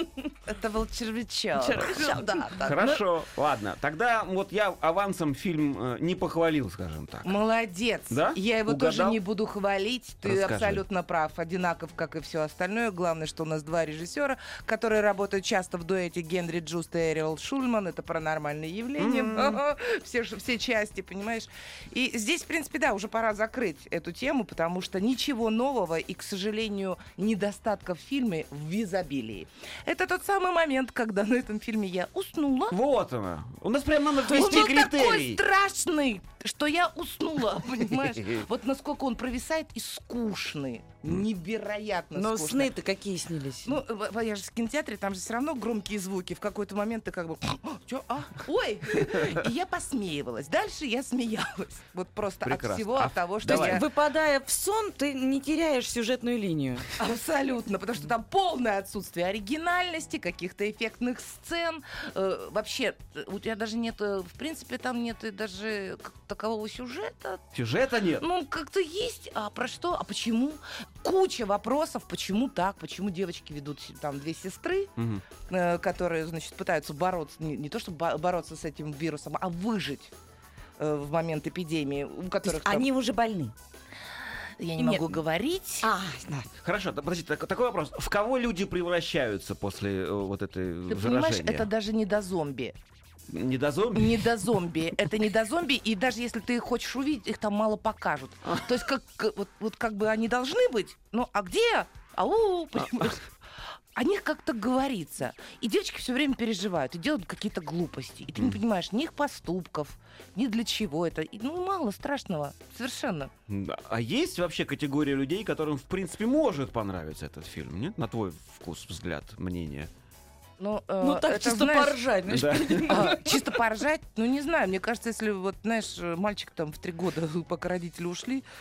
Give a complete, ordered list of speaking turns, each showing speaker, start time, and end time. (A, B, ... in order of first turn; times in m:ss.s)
0:00.5-0:03.0 A
0:01.6-0:02.9 B
0:02.6-0:07.4 C
0:07.2-0:32.8 A
0:08.1-0:09.2 C
0:10.2-0:10.8 C
0:19.0-0:19.6 C
0:32.7-0:35.4 C
0:34.2-0:42.7 A
0:38.2-0:38.4 C
0:42.2-0:43.8 B
0:43.6-0:53.8 A
0:52.4-0:53.8 C
0:53.4-0:56.8 B
0:57.0-1:07.4 A
1:07.5-1:08.3 C
1:08.2-1:14.9 A
1:15.0-1:15.2 C
1:15.5-1:20.1 A
1:20.8-1:22.9 A
1:22.5-1:23.5 B
1:24.6-1:25.9 A
1:24.8-1:25.2 B
1:25.8-1:26.5 B
1:26.6-1:31.7 C
1:30.9-1:32.8 A
1:33.3-1:34.6 C
1:34.0-1:43.3 A
1:42.8-1:43.1 C
1:44.0-1:53.3 A
1:53.5-1:59.9 C
2:00.6-2:02.0 A
2:01.0-2:03.4 B
2:02.3-2:03.0 C
2:02.8-2:08.5 A